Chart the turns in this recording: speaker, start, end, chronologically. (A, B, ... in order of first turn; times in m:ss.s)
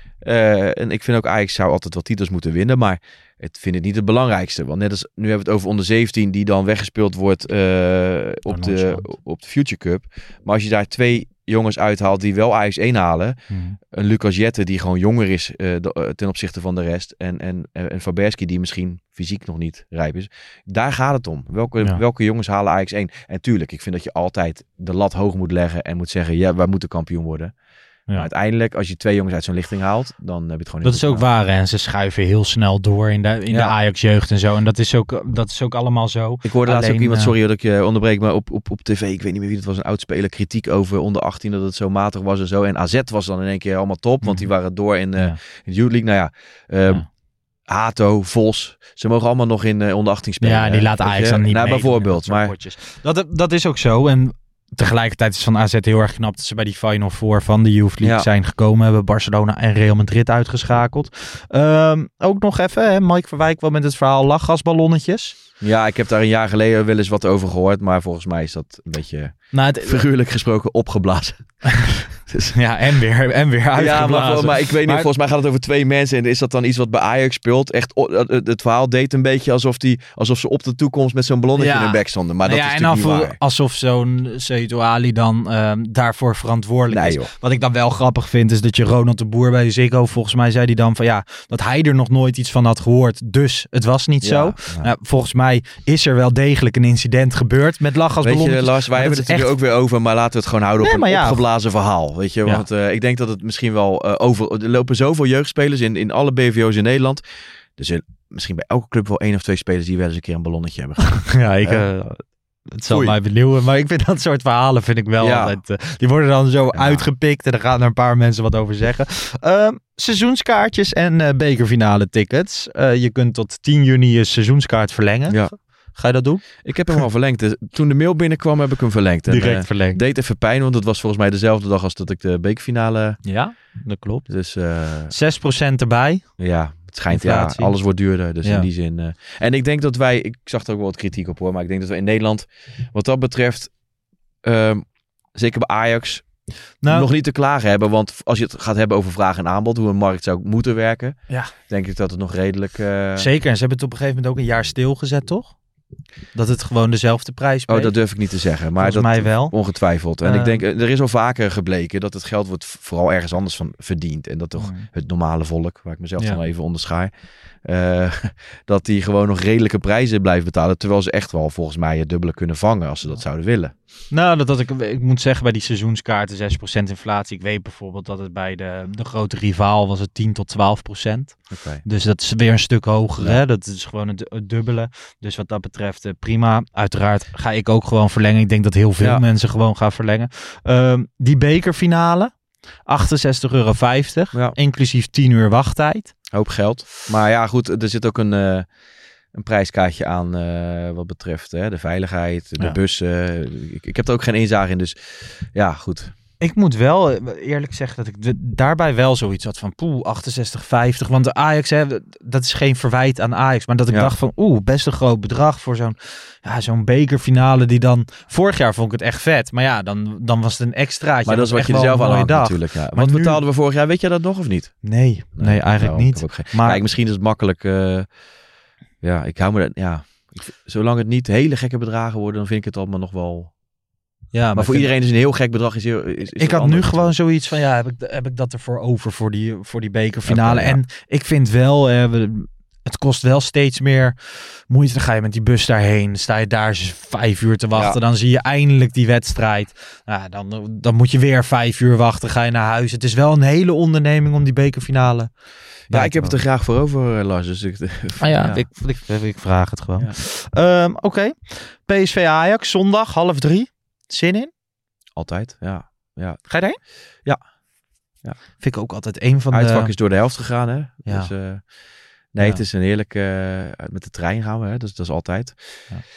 0:00.2-0:27.6 A
0:08.5-0:09.0 B
0:13.5-0:13.8 B
0:28.1-0:31.2 A
0:30.8-0:37.3 B
0:36.4-0:47.1 A
0:44.2-0:44.5 B
0:47.6-0:52.5 A
0:50.4-1:05.4 B
0:58.0-0:58.3 A
1:05.6-1:12.6 A
1:09.5-1:10.0 B
1:12.5-1:15.1 B
1:13.8-1:23.4 A
1:21.6-1:39.5 B
1:26.9-1:27.3 A
1:34.2-1:34.9 A
1:38.2-1:47.2 A
1:40.8-1:41.4 B
1:47.8-1:51.9 A
1:51.3-2:07.0 B
1:52.9-1:53.2 A
1:55.2-1:55.6 A
1:56.7-1:57.1 A
2:05.3-2:05.6 A
2:06.6-2:13.3 A
2:09.3-2:10.0 B
2:13.2-2:14.6 B
2:14.3-2:15.2 A
2:15.1-2:16.4 B
2:16.4-2:23.7 A
2:17.1-2:17.8 B
2:18.4-2:18.7 B
2:24.4-2:33.3 A
2:26.8-2:27.1 B
2:31.3-2:31.5 B
2:33.2-2:35.6 B
2:36.3-2:40.6 B
2:37.7-2:53.7 A
2:44.6-2:44.9 B
2:54.1-3:16.2 B
3:01.5-3:01.8 A
3:09.0-3:09.2 A
3:16.3-3:18.7 A
3:19.3-3:26.1 A
3:26.4-3:43.4 B
3:41.2-3:48.2 A
3:44.8-3:46.8 B
3:49.0-3:53.6 A
3:54.3-3:54.9 B
3:54.5-3:57.1 A
3:56.4-4:16.4 B
4:00.3-4:00.8 A
4:07.7-4:08.0 A
4:15.9-4:18.7 A
4:18.2-4:24.5 B
4:25.2-4:27.4 A
4:26.5-4:26.8 B
4:28.6-4:29.9 B
4:29.5-4:35.9 A
4:31.0-4:31.3 B